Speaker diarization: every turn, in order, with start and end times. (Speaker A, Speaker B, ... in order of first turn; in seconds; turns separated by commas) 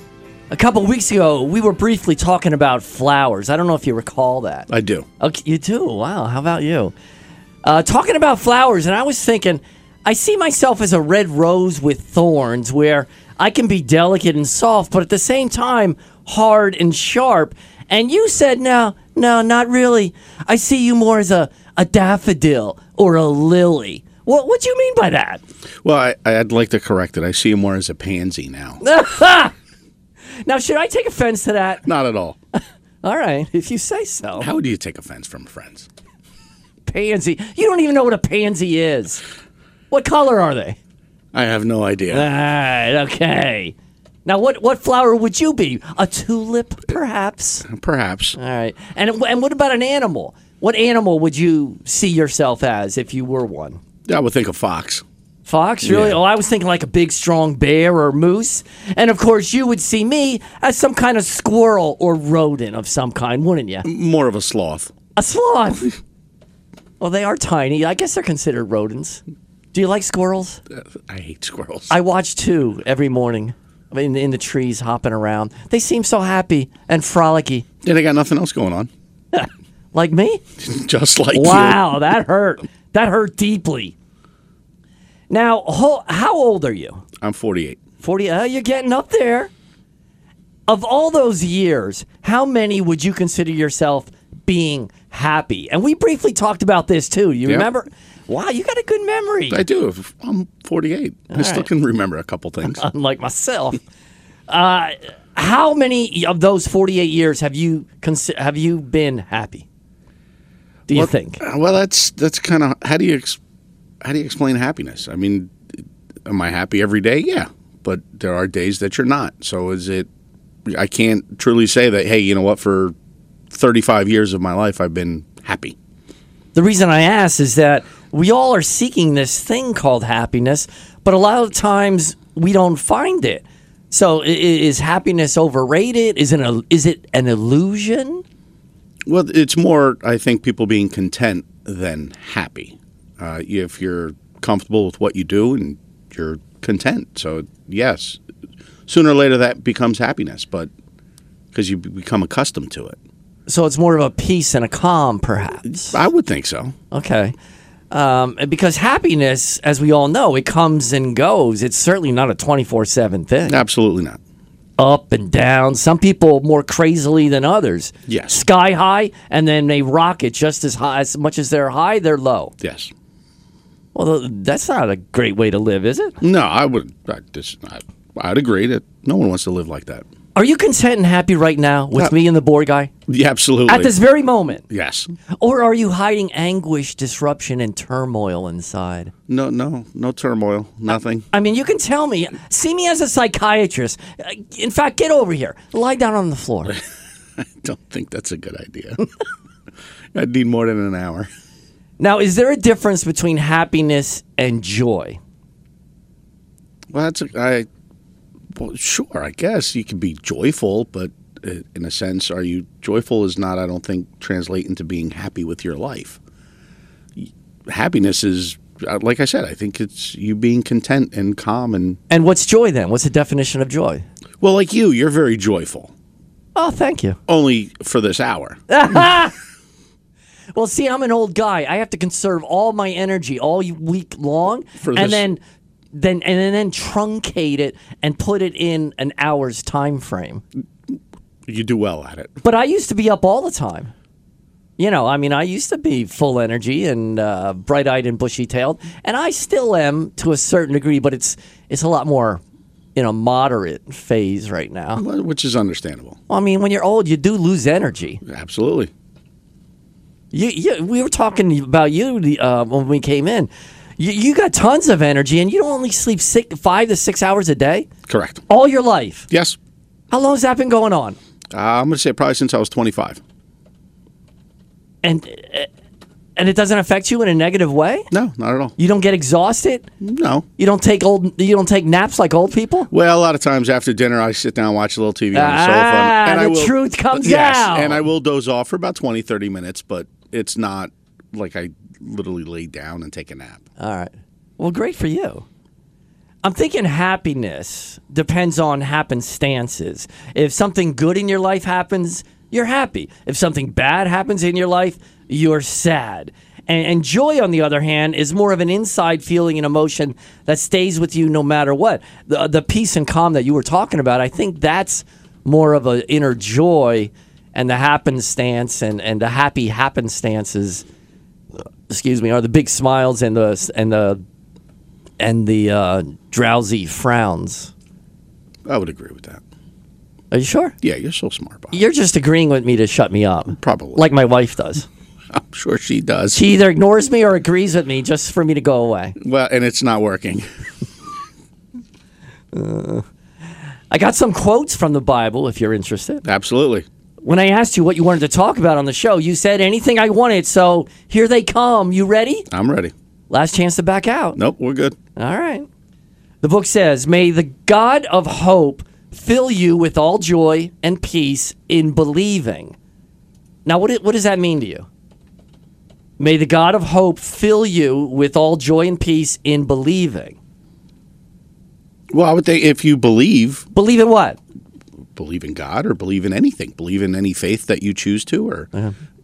Speaker A: 0.5-4.7, Speaker B: 4.7-5.1, Speaker A: 5.2-6.9, Speaker A: 7.6-25.4, Speaker B: 25.8-28.8, Speaker A: 28.8-29.5, Speaker A: 30.5-31.8, Speaker B: 31.9-32.4, Speaker A: 33.0-34.5, Speaker B: 34.4-35.9, Speaker A: 36.9-39.2, Speaker A: 39.9-40.8, Speaker B: 41.3-42.3, Speaker A: 42.1-43.7, Speaker A: 44.2-47.7, Speaker B: 47.6-48.4, Speaker A: 48.4-53.8, Speaker B: 54.1-55.0, Speaker A: 55.5-63.9, Speaker B: 55.8-56.2, Speaker B: 63.8-64.9, Speaker A: 65.2-65.9, Speaker A: 67.0-69.2, Speaker A: 69.7-70.6, Speaker B: 70.7-71.9, Speaker A: 71.9-77.7, Speaker B: 77.8-78.9, Speaker A: 79.3-80.4, Speaker B: 80.6-81.9, Speaker A: 81.3-83.9, Speaker A: 85.3-87.0, Speaker B: 87.2-87.8, Speaker A: 88.0-89.5, Speaker A: 90.7-99.6, Speaker B: 99.5-102.9, Speaker A: 101.3-101.7, Speaker A: 102.6-103.8, Speaker A: 104.5-109.7, Speaker A: 110.9-111.4, Speaker B: 110.9-113.4, Speaker B: 114.0-120.1, Speaker B: 120.7-123.0, Speaker B: 123.5-125.8, Speaker A: 126.5-138.2, Speaker B: 139.1-148.2, Speaker B: 148.9-150.7, Speaker B: 151.5-153.0, Speaker A: 153.5-155.9, Speaker B: 155.7-156.8, Speaker A: 156.9-157.3, Speaker A: 157.9-163.6, Speaker B: 163.5-164.2, Speaker A: 164.8-172.5, Speaker B: 168.1-168.4, Speaker B: 172.6-172.9, Speaker A: 173.9-176.2, Speaker B: 176.2-180.1, Speaker A: 180.3-182.9, Speaker B: 183.1-183.9, Speaker A: 183.7-184.6, Speaker B: 184.7-185.1, Speaker A: 185.4-189.1, Speaker B: 189.3-191.3, Speaker A: 191.3-196.8, Speaker B: 197.4-199.0, Speaker B: 200.1-201.3, Speaker A: 202.0-205.2, Speaker B: 206.9-207.7, Speaker B: 208.6-216.2, Speaker B: 217.2-222.0, Speaker A: 222.1-224.0, Speaker B: 224.4-225.9, Speaker A: 226.6-227.2, Speaker B: 227.3-229.1, Speaker A: 228.7-229.3, Speaker A: 230.6-235.4, Speaker B: 234.8-235.2, Speaker A: 235.9-240.4, Speaker B: 240.9-242.4, Speaker A: 242.4-243.9, Speaker A: 244.8-252.4, Speaker A: 253.0-255.0, Speaker B: 254.9-256.2, Speaker A: 256.3-258.2, Speaker B: 258.2-258.9, Speaker A: 260.3-267.9, Speaker B: 268.1-268.4, Speaker A: 268.5-269.3, Speaker B: 269.3-269.6, Speaker A: 270.1-271.2, Speaker B: 271.5-273.2, Speaker A: 275.0-275.7, Speaker A: 276.4-278.1, Speaker B: 278.1-278.8, Speaker A: 278.8-279.9, Speaker B: 280.0-280.4, Speaker A: 280.6-282.9, Speaker B: 282.9-293.6, Speaker A: 285.3-288.1, Speaker A: 293.8-295.4, Speaker A: 296.4-320.8, Speaker A: 321.6-324.2, Speaker A: 325.2-327.7, Speaker B: 328.6-329.4, Speaker A: 330.3-330.8, Speaker B: 330.8-331.8, Speaker A: 331.7-334.9, Speaker B: 333.5-334.1, Speaker B: 335.3-336.4, Speaker A: 336.3-339.2, Speaker B: 339.2-340.4, Speaker A: 342.5-343.1, Speaker A: 343.9-346.2, Speaker B: 346.2-346.9, Speaker A: 347.2-352.5, Speaker B: 352.5-352.9, Speaker A: 353.3-354.4, Speaker B: 354.4-355.0, Speaker A: 355.2-355.7, Speaker A: 356.4-362.8, Speaker A: 363.7-364.9, Speaker A: 366.2-370.4, Speaker B: 372.1-373.7, Speaker A: 373.7-374.4, Speaker B: 375.2-378.7